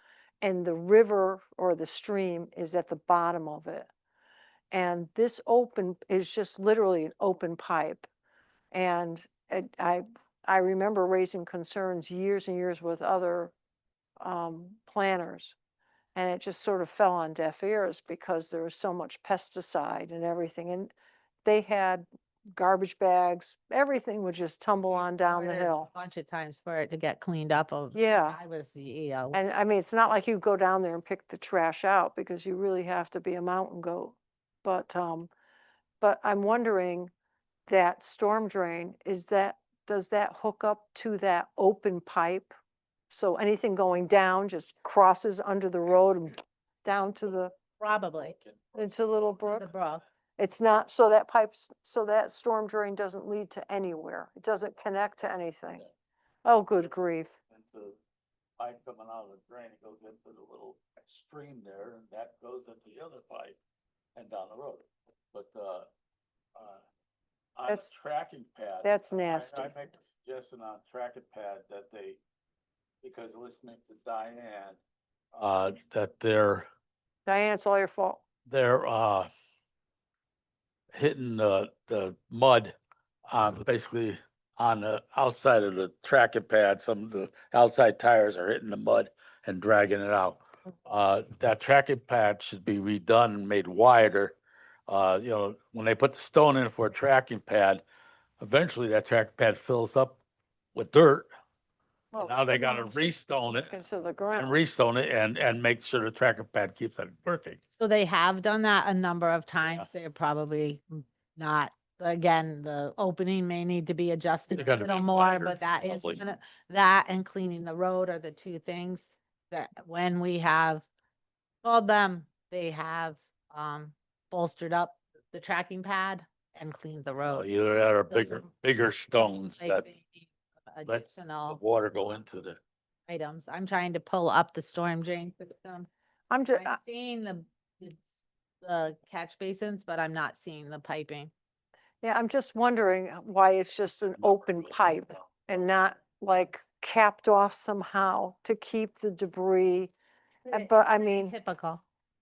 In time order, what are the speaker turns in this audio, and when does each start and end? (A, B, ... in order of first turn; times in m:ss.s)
0:00.4-0:03.9 A
0:04.7-0:08.1 A
0:08.7-0:13.5 A
0:14.2-0:15.5 A
0:16.1-0:20.9 A
0:21.4-0:25.9 A
0:24.9-0:29.4 B
0:27.9-0:28.4 A
0:29.3-0:35.3 A
0:36.0-0:37.1 A
0:37.7-0:42.5 A
0:43.1-0:47.5 A
0:47.8-0:48.4 B
0:48.7-0:49.7 A
0:49.4-0:50.0 B
0:50.4-0:55.8 A
0:56.4-0:57.3 A
0:57.5-0:58.0 C
0:58.6-1:03.6 C
1:04.2-1:05.9 C
1:06.6-1:06.8 C
1:07.6-1:12.2 C
1:08.8-1:09.7 A
1:13.0-1:14.8 C
1:15.3-1:16.7 C
1:17.2-1:18.2 A
1:18.5-1:19.3 C
1:20.9-1:22.8 C
1:23.3-1:34.4 C
1:34.9-1:37.8 C
1:38.4-1:40.2 C
1:40.7-1:41.3 C
1:42.1-1:44.6 A
1:42.2-1:43.8 C
1:44.4-1:47.6 C
1:47.8-2:00.8 B
1:54.5-1:56.2 C
2:01.6-2:07.5 B
2:07.3-2:09.8 C
2:08.1-2:08.4 B
2:09.2-2:11.6 B
2:10.9-2:12.6 C
2:13.1-2:15.9 B
2:16.3-2:16.8 A
2:16.5-2:18.0 B
2:18.6-2:21.3 B
2:22.0-2:29.9 A
2:24.2-2:25.0 C
2:30.4-2:31.8 B
2:30.5-2:31.3 A